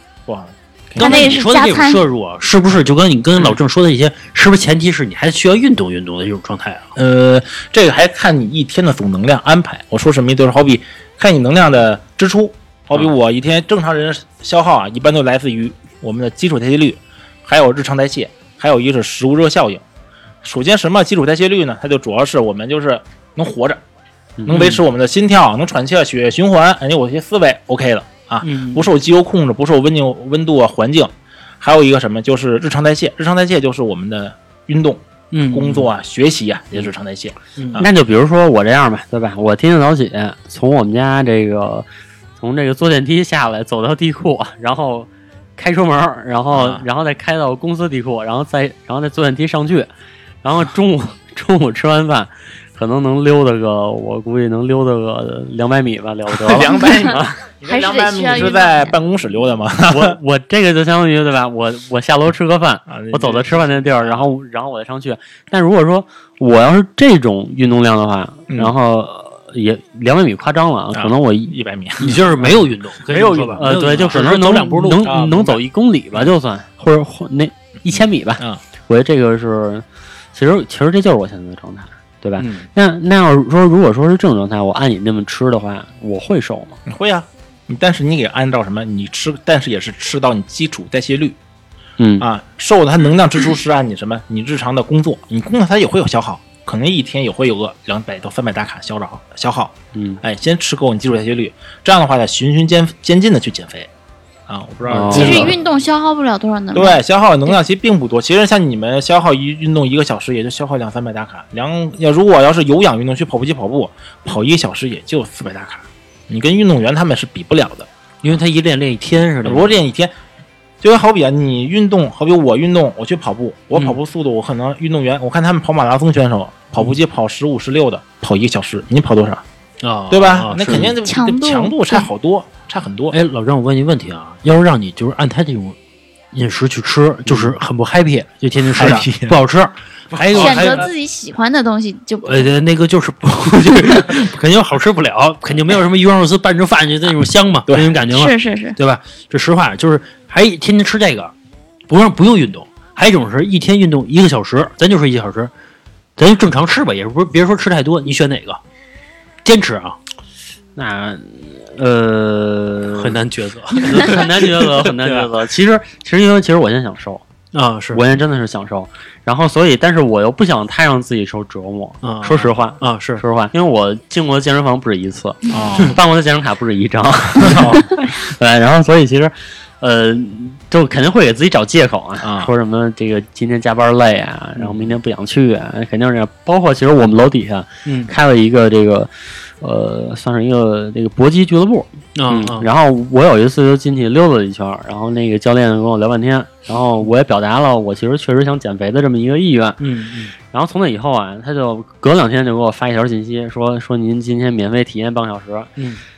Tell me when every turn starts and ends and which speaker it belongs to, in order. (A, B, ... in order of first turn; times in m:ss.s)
0:00.3-0:01.4 A
0:01.0-0:06.9 B
0:01.0-0:02.0 C
0:07.0-0:19.8 A
0:20.4-0:23.8 A
0:24.4-0:24.8 D
0:24.5-0:37.9 A
0:28.4-0:28.9 B
0:35.3-0:35.9 B
0:37.6-0:37.9 B
0:37.8-0:41.9 D
0:42.4-0:49.9 D
0:46.5-0:46.8 A
0:50.4-0:57.4 D
0:56.4-1:00.2 A
0:56.8-0:57.1 C
0:57.7-0:59.0 C
0:59.9-1:12.5 D
1:02.9-1:04.3 A
1:10.9-1:12.2 A
1:12.0-1:15.1 B
1:13.1-1:19.8 D
1:13.6-1:14.2 A
1:15.0-1:15.6 A
1:17.9-1:18.6 A
1:20.4-1:26.8 D
1:22.4-1:22.7 B
1:26.9-1:31.4 A
1:32.0-1:32.3 D
1:32.2-1:43.9 A
1:40.0-1:40.2 D
1:44.5-1:45.6 A
1:44.9-1:45.6 D
1:45.1-1:47.6 C
1:46.7-1:57.9 A
1:58.2-1:59.8 B
1:59.4-2:00.1 A
2:00.8-2:09.4 A
2:03.7-2:04.0 B
2:09.8-2:11.0 B
2:10.1-2:13.2 A
2:11.1-2:12.1 C
2:13.1-2:15.8 B
2:16.3-2:20.9 B
2:18.7-2:19.4 A
2:20.1-2:20.9 A
2:20.4-2:22.5 C
2:22.2-2:31.3 B
2:27.7-2:28.0 A
2:28.1-2:28.8 C
2:31.9-2:35.5 B
2:36.2-2:38.6 B
2:39.4-2:40.0 B
2:40.8-2:43.2 D
2:43.0-2:45.3 B
2:43.8-2:47.2 D
2:47.5-2:48.0 B
2:47.9-3:19.8 D
2:52.0-2:53.2 B
2:55.5-2:56.0 A
2:57.4-2:57.8 A
3:02.2-3:02.5 A
3:07.8-3:08.2 B
3:12.2-3:12.7 B
3:19.8-3:20.3 B
3:20.5-3:25.7 D
3:25.8-3:26.0 B